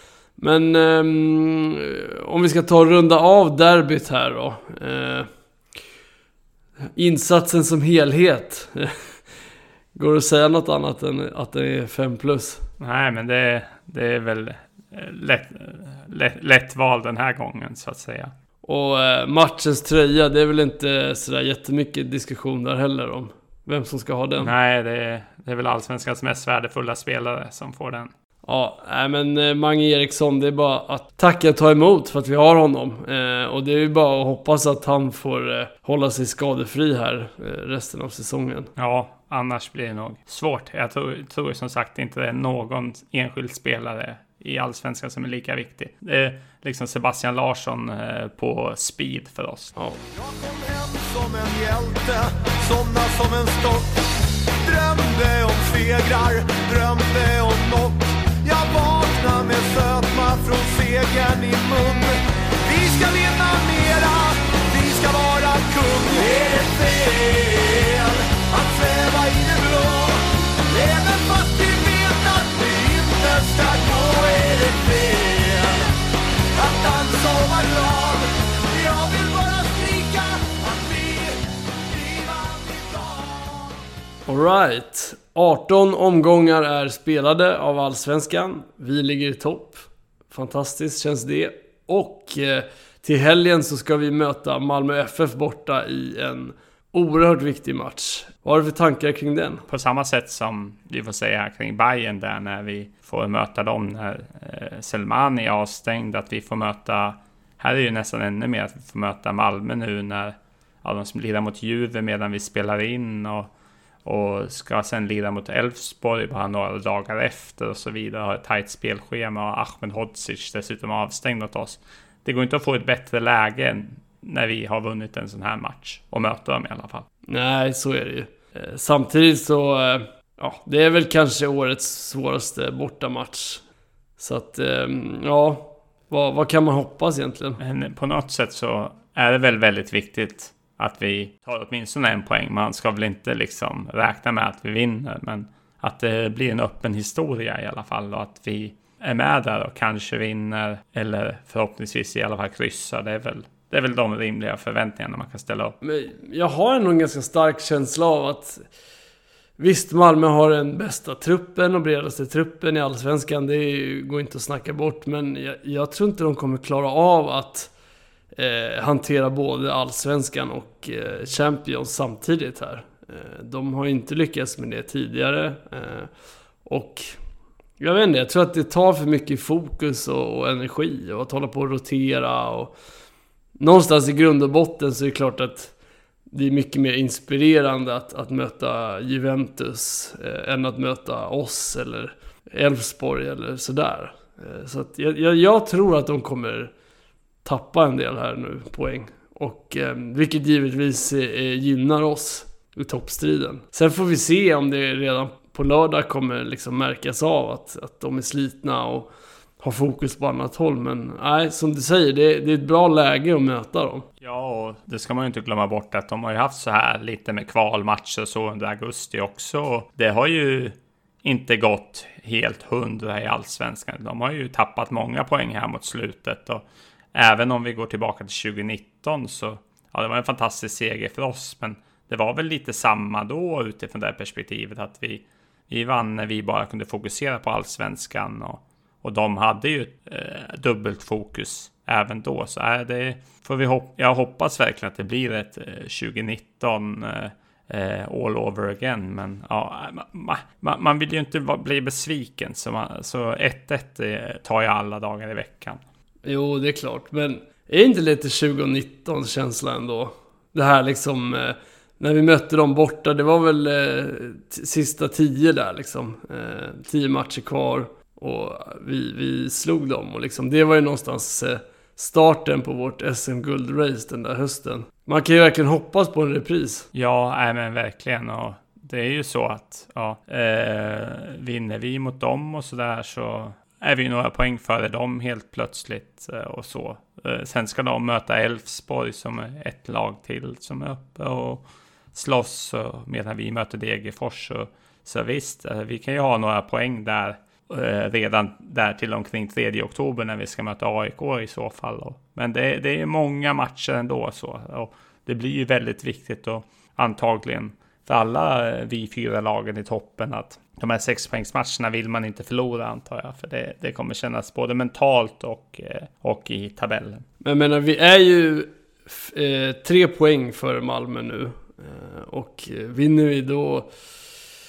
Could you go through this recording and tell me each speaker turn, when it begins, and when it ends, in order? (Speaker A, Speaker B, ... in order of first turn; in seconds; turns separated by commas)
Speaker A: 0.4-5.3, Speaker A: 7.0-9.2, Speaker A: 9.9-12.6, Speaker B: 12.8-18.3, Speaker A: 18.6-24.5, Speaker B: 24.4-28.1, Speaker A: 28.4-38.7, Speaker B: 38.8-49.7, Speaker C: 50.1-54.0, Speaker C: 54.6-75.9, Speaker C: 76.5-83.7, Speaker A: 84.3-99.6, Speaker B: 99.7-113.5, Speaker B: 114.0-127.1, Speaker A: 127.3-133.6, Speaker A: 134.2-137.6, Speaker B: 137.6-155.8, Speaker A: 155.8-158.7, Speaker A: 159.6-167.7, Speaker A: 168.3-176.1, Speaker A: 176.6-177.2, Speaker A: 177.8-182.7, Speaker A: 183.6-185.7, Speaker A: 186.3-196.7, Speaker A: 197.4-209.1, Speaker A: 209.6-214.1, Speaker B: 214.2-255.8, Speaker A: 256.2-276.9, Speaker B: 276.9-317.2, Speaker A: 317.4-323.9